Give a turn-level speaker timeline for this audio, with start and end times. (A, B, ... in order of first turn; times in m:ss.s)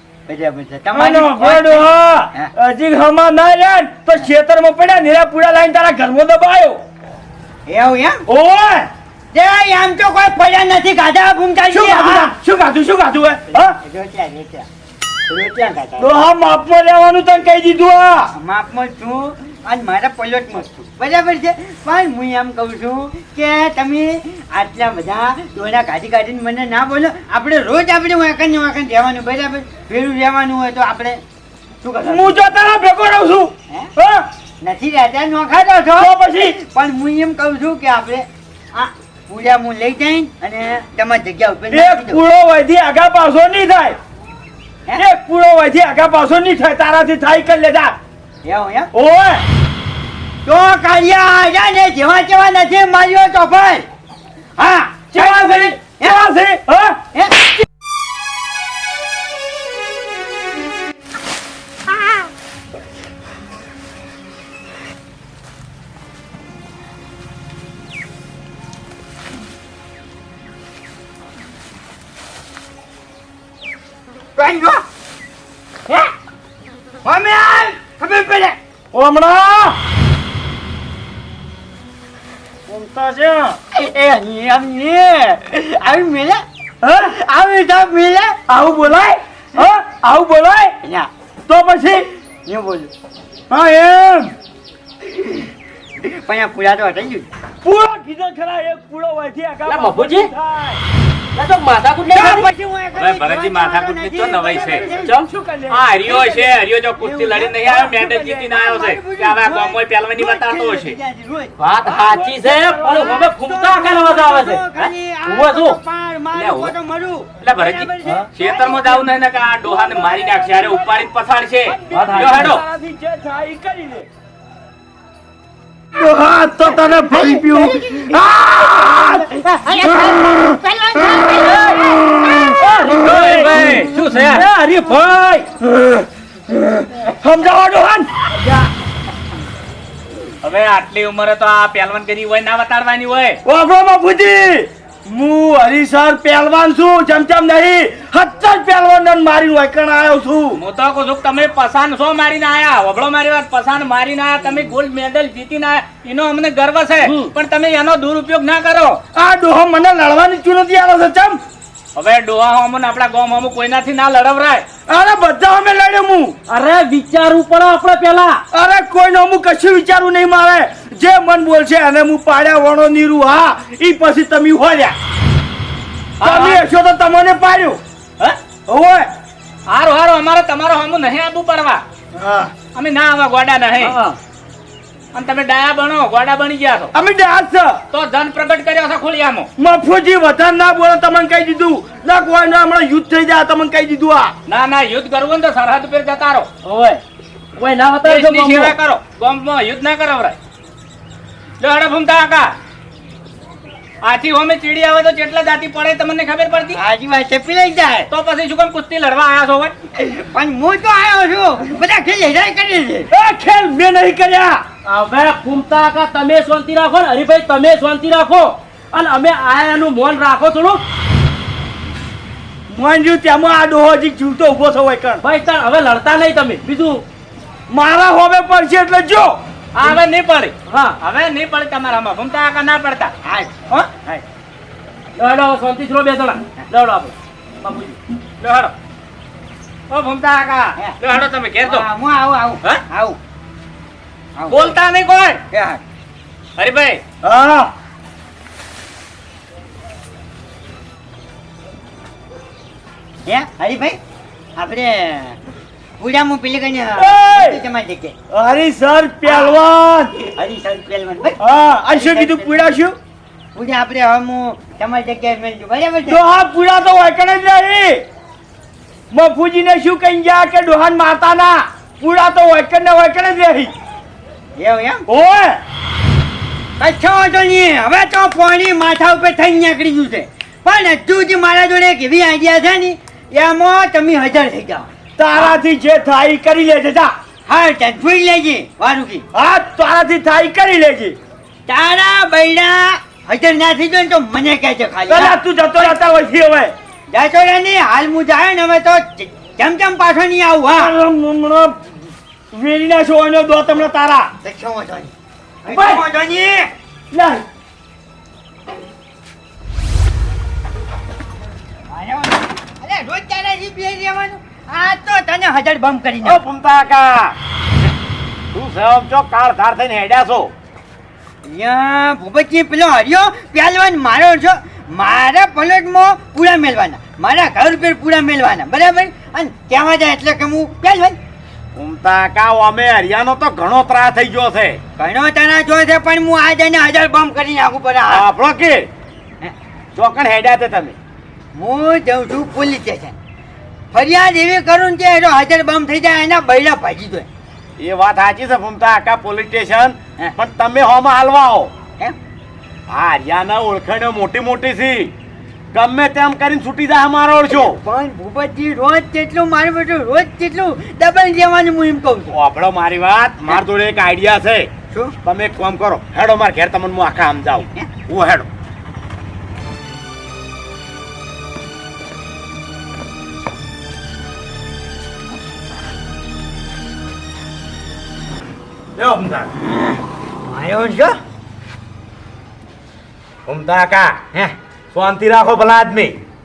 0:00.3-0:02.5 A
0:00.9-0:06.8 B
0:07.7-0:08.2 A
0:08.3-0:08.9 B
0:09.3-0:12.3 A
0:11.7-0:13.8 B
0:13.5-0:14.7 A
0:15.3-0:16.2 A
0:16.0-0:18.3 B
0:18.4-0:31.2 A
0:31.8-0:32.4 A
0:32.1-0:34.3 B
0:34.6-0:42.2 A
0:36.0-0:36.6 B
0:41.7-0:44.0 B
0:45.0-0:48.0 B
0:48.4-0:48.9 A
0:48.9-0:49.4 B
0:50.4-0:53.9 A
0:54.6-0:56.2 A
0:55.1-0:57.0 B
0:57.1-0:57.6 A
1:14.4-1:14.8 A
1:17.0-1:18.6 A
1:18.9-1:19.8 B
1:22.7-1:23.6 B
1:23.7-1:26.4 A
1:26.8-1:27.2 B
1:27.0-1:28.4 A
1:28.5-1:30.7 B
1:30.8-1:31.1 A
1:31.5-1:32.1 B
1:32.5-1:32.9 A
1:33.5-1:34.3 B
1:36.0-1:37.3 A
1:37.6-1:40.8 B
1:39.6-1:40.3 C
1:41.4-1:42.5 C
1:42.1-1:45.2 A
1:43.0-1:43.4 D
1:43.3-1:44.9 E
1:44.8-1:46.4 B
1:45.0-1:45.3 C
1:45.7-1:51.0 E
1:47.0-1:51.6 A
1:47.8-1:48.0 B
1:51.6-1:55.8 C
1:51.9-1:53.1 B
1:52.8-1:58.8 A
1:56.3-1:56.7 E
1:57.4-2:02.6 E
1:59.4-2:01.1 B
2:01.6-2:04.1 B
2:01.9-2:02.5 C
2:06.0-2:09.5 B
2:07.1-2:08.2 A
2:08.8-2:12.6 A
2:12.4-2:13.5 B
2:12.6-2:15.5 C
2:13.0-2:14.4 E
2:15.7-2:18.5 B
2:20.4-2:23.4 E
2:23.4-2:30.6 B
2:30.6-2:39.0 E
2:37.0-2:37.3 C
2:39.1-2:41.4 B
2:42.0-2:44.7 E
2:44.9-2:46.4 B
2:46.5-2:48.4 C
2:48.5-2:55.0 B
2:56.2-2:56.6 E
2:56.2-2:59.1 B
2:59.7-3:01.8 E
3:02.2-3:02.5 B
3:02.7-3:04.0 E
3:05.1-3:06.9 E
3:07.0-3:07.8 B
3:07.9-3:09.5 E
3:09.6-3:14.4 B
3:14.5-3:16.5 E
3:16.6-3:17.0 C
3:17.6-3:18.8 C
3:18.0-3:20.4 E
3:21.6-3:22.6 E
3:24.0-3:26.8 E
3:26.7-3:28.1 A
3:28.1-3:29.7 E
3:30.0-3:33.1 A
3:33.1-3:34.7 B
3:34.8-3:40.8 C
3:42.7-3:45.2 B
3:45.2-3:47.0 C
3:47.7-3:49.8 B
3:49.8-3:53.1 E
3:50.7-3:51.0 C
3:53.2-3:54.2 A
3:55.2-3:58.0 C
3:58.4-3:58.7 E
3:59.9-4:01.9 E
4:01.6-4:03.2 A
4:04.4-4:04.8 A
4:04.5-4:05.4 E
4:05.5-4:05.8 A
4:06.6-4:07.0 E
4:07.2-4:07.7 B
4:13.2-4:14.0 A
4:14.6-4:15.4 A
4:16.0-4:18.2 A
4:17.0-4:17.6 B
4:18.3-4:20.2 B
4:19.2-4:19.6 A
4:20.2-4:21.4 A
4:21.4-4:23.0 B
4:21.9-4:22.6 A
4:23.6-4:26.2 A
4:26.1-4:28.0 B
4:29.1-4:33.7 B
4:34.6-4:35.0 A
4:35.1-4:35.6 B
4:36.8-4:44.9 A
4:45.2-4:47.2 B
4:47.5-4:49.2 A
4:49.3-4:51.2 B
4:51.7-4:55.9 A
4:55.1-4:56.7 B
4:57.1-5:01.0 A
5:00.7-5:01.8 B
5:02.5-5:04.3 B
5:04.4-5:05.1 A
5:05.6-5:06.7 A
5:05.7-5:06.0 B
5:07.1-5:07.4 B
5:11.9-5:16.4 A
5:16.2-5:17.4 D
5:18.5-5:20.5 D
5:21.5-5:31.2 A
5:31.8-5:34.8 D
5:35.0-5:38.2 A
5:38.1-5:38.9 D
5:40.0-5:41.0 D
5:41.5-5:43.2 A
5:43.9-5:47.3 A
5:47.8-5:51.7 D
5:52.9-5:55.1 D
5:55.7-5:57.8 D
5:57.5-6:02.4 A
6:02.3-6:04.7 D
6:04.9-6:05.2 A
6:05.2-6:08.5 D
6:19.0-6:19.5 D
6:20.4-6:21.2 A
6:23.5-6:24.2 D
6:24.9-6:26.2 D